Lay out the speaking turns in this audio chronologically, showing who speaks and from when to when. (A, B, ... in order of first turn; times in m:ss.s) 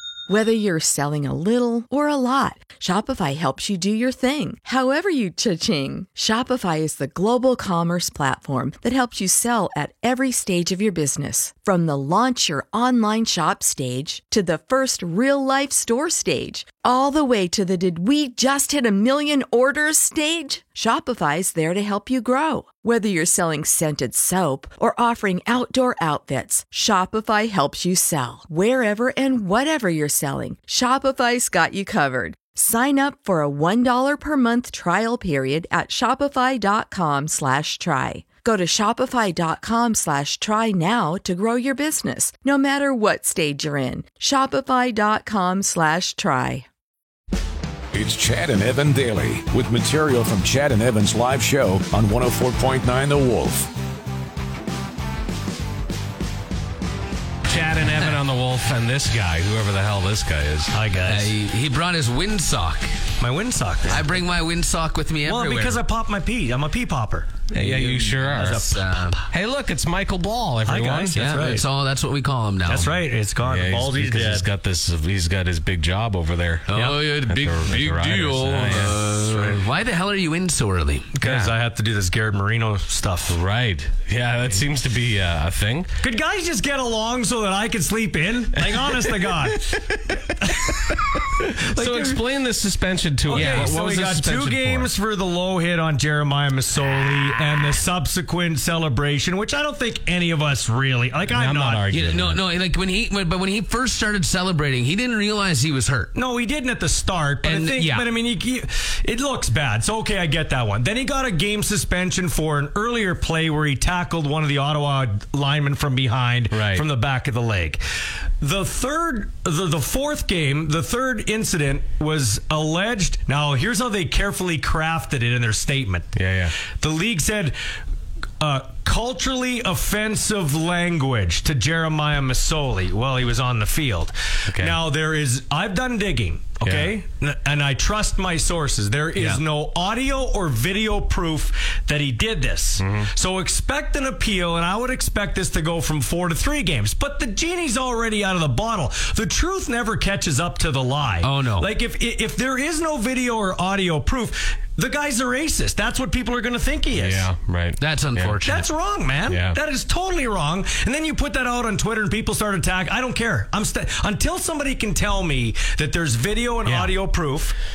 0:00.3-0:46.6 A
0:47.9-0:53.7 B
0:57.5-1:00.7 C
0:57.8-0:58.2 D
1:00.7-1:01.3 E
1:01.0-1:02.9 D
1:03.2-1:04.0 E
1:03.8-1:05.8 D
1:05.2-1:07.4 E
1:07.5-1:08.7 C
1:07.6-1:09.2 D
1:08.4-1:08.8 E
1:09.3-1:11.2 C
1:10.6-1:11.6 E
1:11.1-1:13.0 D
1:12.6-1:14.4 E
1:13.4-1:19.0 C
1:16.7-1:21.2 D
1:18.6-1:19.6 E
1:21.1-1:23.4 E
1:21.2-1:21.5 C
1:23.3-1:25.9 C
1:26.0-1:29.6 E
1:28.8-1:34.9 C
1:31.6-1:32.2 E
1:33.3-1:41.8 E
1:33.3-1:33.6 D
1:41.3-1:42.4 C
1:41.9-1:46.1 D
1:46.1-1:57.8 E
1:47.4-1:48.1 D
1:56.5-1:56.8 C
1:58.4-2:07.5 E
2:06.1-2:06.6 C
2:08.4-2:37.3 E
2:14.5-2:14.8 C
2:16.6-2:17.0 C
2:19.2-2:19.4 D
2:22.8-2:23.1 C
2:31.2-2:31.7 D
2:36.9-2:38.4 C
2:37.8-2:38.6 D
2:38.4-2:47.5 E
2:39.3-2:39.6 C
2:46.6-2:47.0 C